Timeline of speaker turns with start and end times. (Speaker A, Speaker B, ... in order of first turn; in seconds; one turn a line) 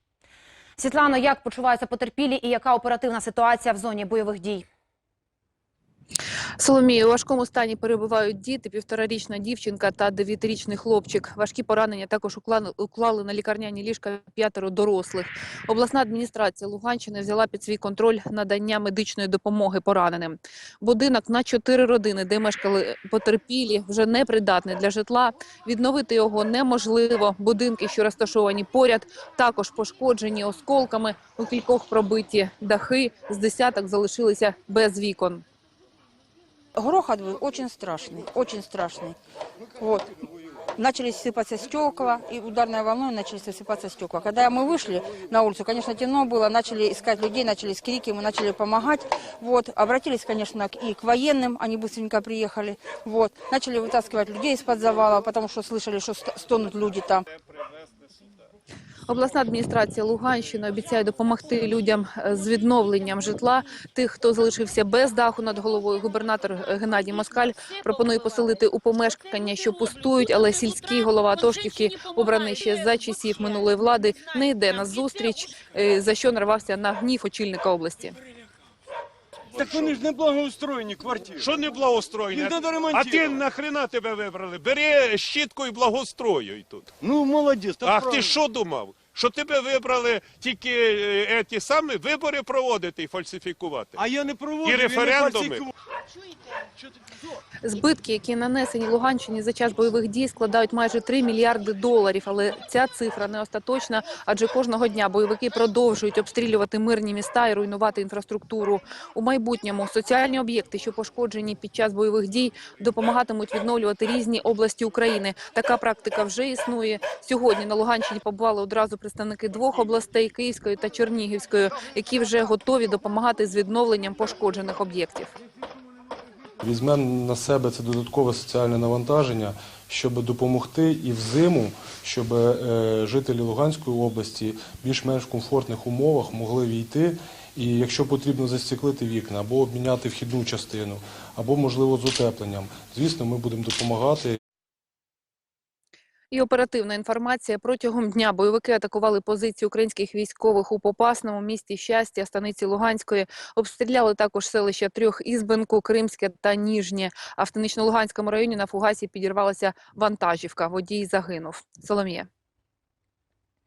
Speaker A: 0.8-4.7
Speaker B: 6.6-35.4
Speaker C: 36.8-39.2
Speaker C: 39.8-40.1
Speaker C: 40.8-57.2
Speaker B: 59.1-78.2
Speaker D: 79.6-81.5
Speaker E: 79.6-79.9
Speaker E: 81.4-86.9
Speaker D: 82.3-83.4
Speaker D: 87.0-88.3
Speaker E: 87.8-94.0
Speaker D: 94.0-95.7
Speaker E: 94.6-95.7
Speaker B: 97.6-125.3
Speaker F: 126.6-144.4
Speaker B: 146.3-162.3